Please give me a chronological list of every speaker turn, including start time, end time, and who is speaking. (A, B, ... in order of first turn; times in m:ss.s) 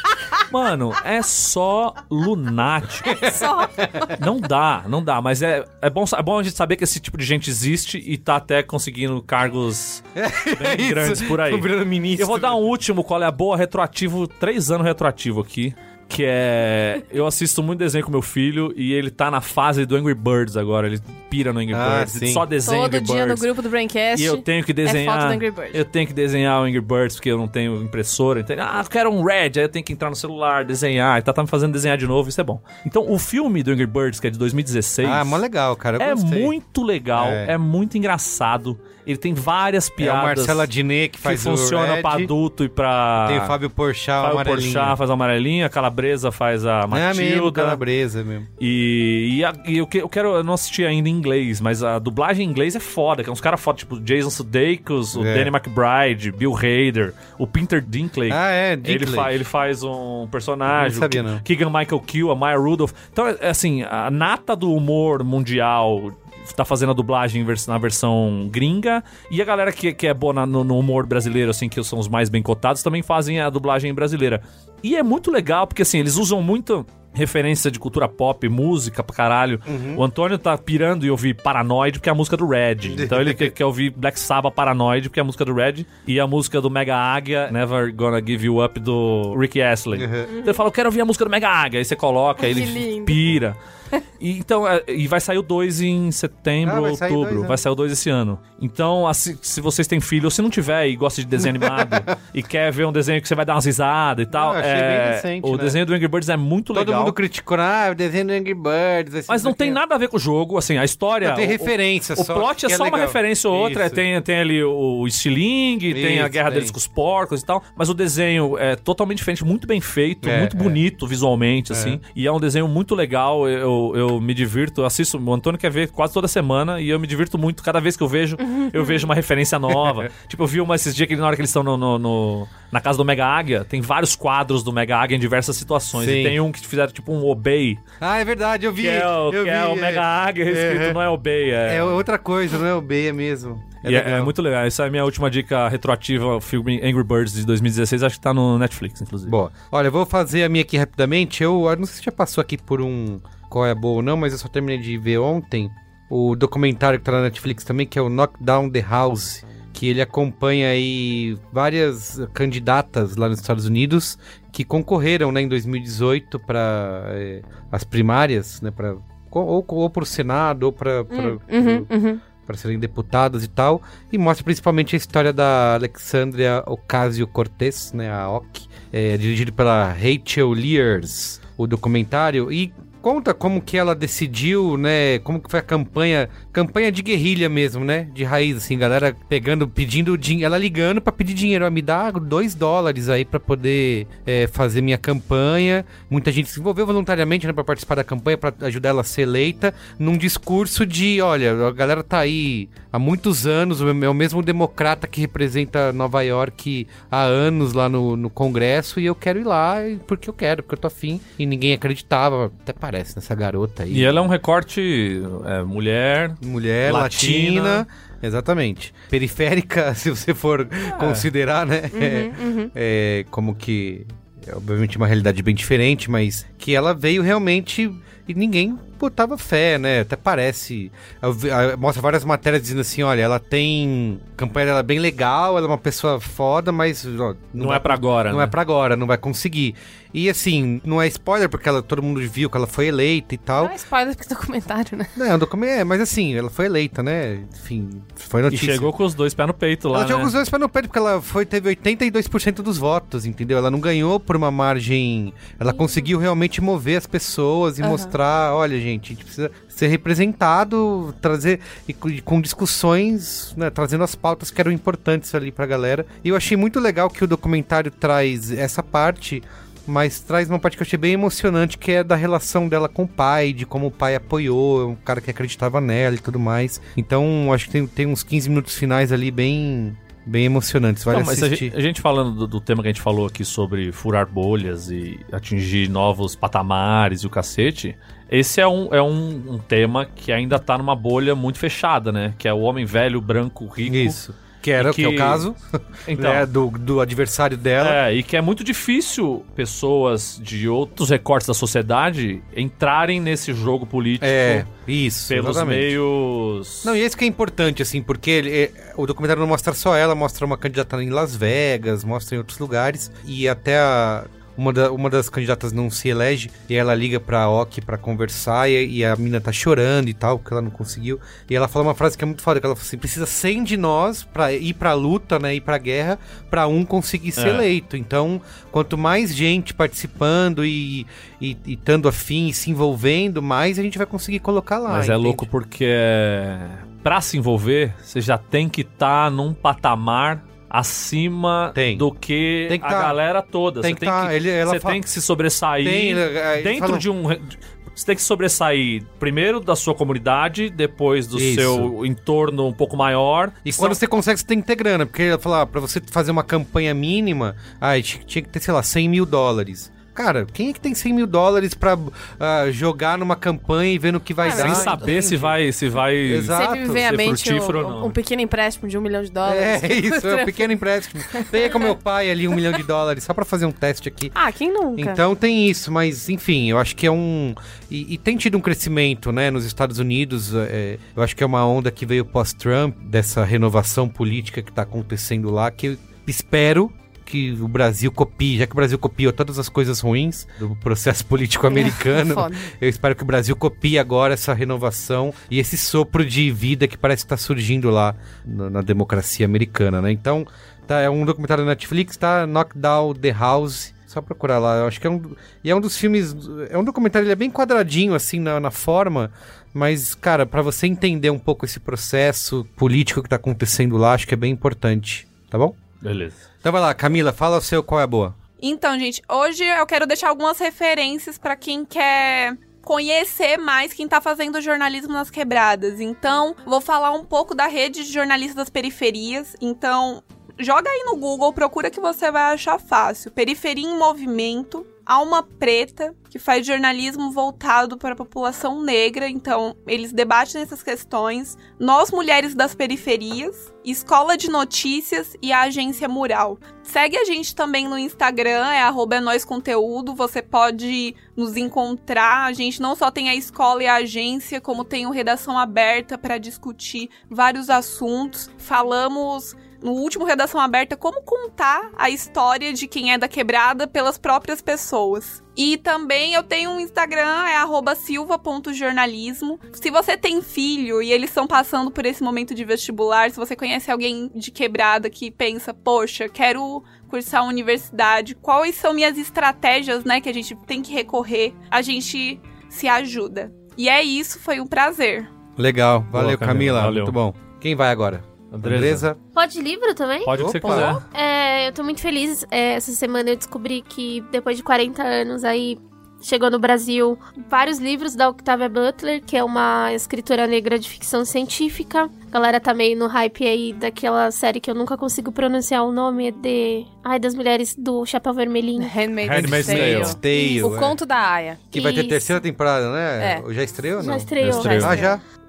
0:00.4-0:03.3 A
0:03.1-0:03.9 B
0:03.1-0:04.2 C
0:04.2-0:23.5 A
0:10.2-0:12.6 B
0:21.7-0:22.4 B
0:22.6-0:25.8 C
0:24.1-0:35.4 A
0:35.0-0:36.5 B
0:36.0-0:40.7 A
0:37.1-0:37.5 B
0:40.0-0:42.3 B
0:41.2-0:43.6 A
0:43.2-0:45.0 B
0:44.2-0:47.8 A
0:46.9-0:48.5 B
0:48.6-1:33.6 A
0:55.1-0:55.5 B
0:58.3-0:59.3 B
1:00.7-1:01.4 B
1:19.7-1:20.0 B
1:22.8-1:23.5 B
1:29.9-1:30.3 B
1:32.4-1:33.3 C
1:34.2-1:47.2 A
1:36.6-1:37.6 B
1:41.4-1:42.1 B
1:44.3-1:45.8 B
1:46.7-1:49.8 B
1:49.3-2:17.8 A
1:51.2-1:54.0 B
1:55.9-1:56.7 B
2:00.2-2:00.8 B
2:01.7-2:02.0 B
2:08.4-2:09.1 C
2:15.9-2:16.4 B
2:18.0-2:21.0 B
2:18.8-2:22.0 A
2:21.6-2:24.3 B
2:23.8-2:29.3 A
2:29.2-2:51.9 B
2:51.1-2:52.2 C
2:52.4-3:34.2 B
3:33.9-3:37.8 A
3:36.4-4:03.8 B
3:40.9-3:41.3 A
3:41.9-3:42.7 C
3:57.6-3:58.5 A
4:03.6-4:05.1 C
4:05.2-4:08.9 B
4:08.5-4:10.3 A
4:09.9-4:41.7 B
4:17.8-4:18.1 C
4:41.1-4:54.2 A
4:53.8-4:58.0 B
4:54.8-4:55.4 A
4:56.1-4:56.5 A
4:57.8-5:04.7 A
5:04.2-5:05.9 B
5:05.3-5:06.9 A
5:06.8-5:35.5 B
5:27.4-5:27.6 A
5:34.9-5:54.0 A
5:41.7-5:42.1 B
5:42.7-5:43.2 B
5:43.8-5:45.0 B
5:45.8-5:47.0 B
5:51.3-5:51.9 B
5:53.6-6:05.6 B
6:04.4-6:05.2 C
6:04.5-6:08.2 A
6:06.2-6:07.0 B
6:06.5-6:10.6 C
6:09.4-6:14.3 B
6:11.3-6:11.9 C
6:14.3-6:15.2 C
6:15.0-6:55.8 B
6:31.7-6:32.6 C
6:56.0-6:56.4 A
6:56.6-6:58.4 B
6:58.6-8:05.3 D
8:05.6-8:09.2 B
8:06.1-8:07.2 A
8:08.5-8:09.0 A
8:09.3-8:28.9 E
8:10.2-8:11.0 A
8:10.3-8:11.0 B
8:28.8-8:31.7 C
8:29.2-8:30.2 A
8:29.3-8:31.0 B
8:30.3-8:30.6 E
8:31.7-8:35.2 B
8:31.7-8:32.3 E
8:33.2-8:33.4 C
8:34.0-8:35.1 E
8:34.4-8:35.0 A
8:34.5-8:35.1 C